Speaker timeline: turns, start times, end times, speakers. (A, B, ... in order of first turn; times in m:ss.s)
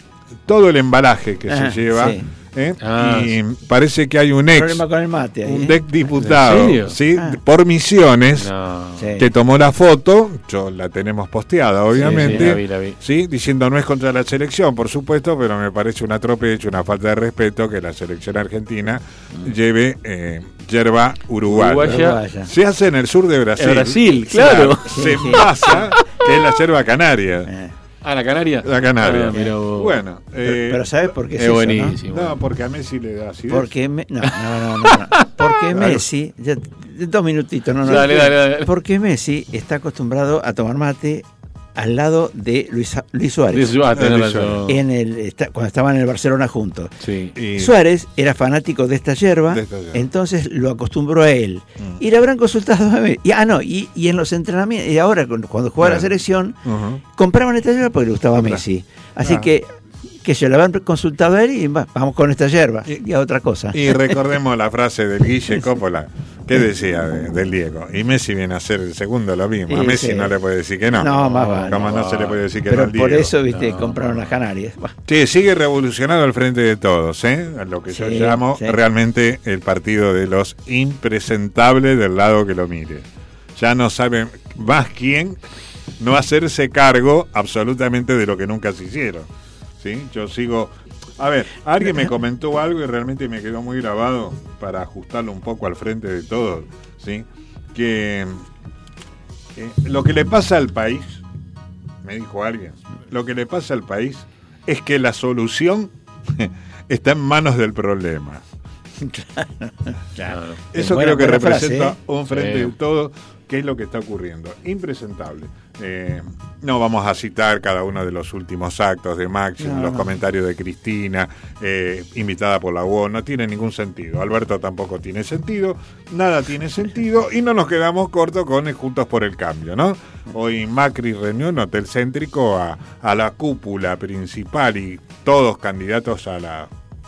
0:00.5-0:04.8 A
0:01.5-0:02.2 B
0:02.8-0:03.3 C
0:04.5-0:05.8 B
0:05.4-0:08.5 A
0:06.2-0:07.0 C
0:08.4-0:09.1 C
0:09.0-0:09.2 B
0:09.2-0:27.5 A
0:11.9-0:13.0 C
0:12.0-0:12.5 B
0:21.4-0:22.2 C
0:21.7-0:22.5 B
0:23.6-0:25.8 C
0:24.5-0:25.8 B
0:27.5-0:27.7 B
0:28.0-0:30.0 C
0:28.6-0:30.8 A
0:30.5-0:32.0 B
0:31.4-0:32.4 C
0:32.1-0:33.7 A
0:33.5-0:43.8 B
0:34.9-0:35.5 C
0:35.7-0:36.0 A
0:37.8-0:38.7 C
0:43.5-0:44.8 C
0:43.9-0:44.6 A
0:44.7-0:46.9 B
0:47.0-0:47.3 C
0:47.4-0:47.7 A
0:47.5-0:56.6 B
0:49.5-0:50.0 A
0:55.8-0:56.1 A
0:56.6-0:57.0 A
0:57.1-0:59.7 B
0:58.3-0:58.6 A
0:59.2-0:59.5 A
1:00.2-1:04.1 B
1:03.7-1:13.3 A
1:09.7-1:10.3 B
1:10.9-1:11.8 B
1:11.1-1:12.4 C
1:12.7-1:14.9 B
1:13.5-1:14.3 C
1:15.1-1:25.4 A
1:17.9-1:18.8 B
1:26.0-1:38.4 A
1:39.6-1:41.2 A
1:42.0-1:48.4 A
1:49.0-1:51.9 B
1:50.3-1:50.6 C
1:50.7-2:16.7 A
1:52.3-1:52.7 C
1:59.6-2:00.1 B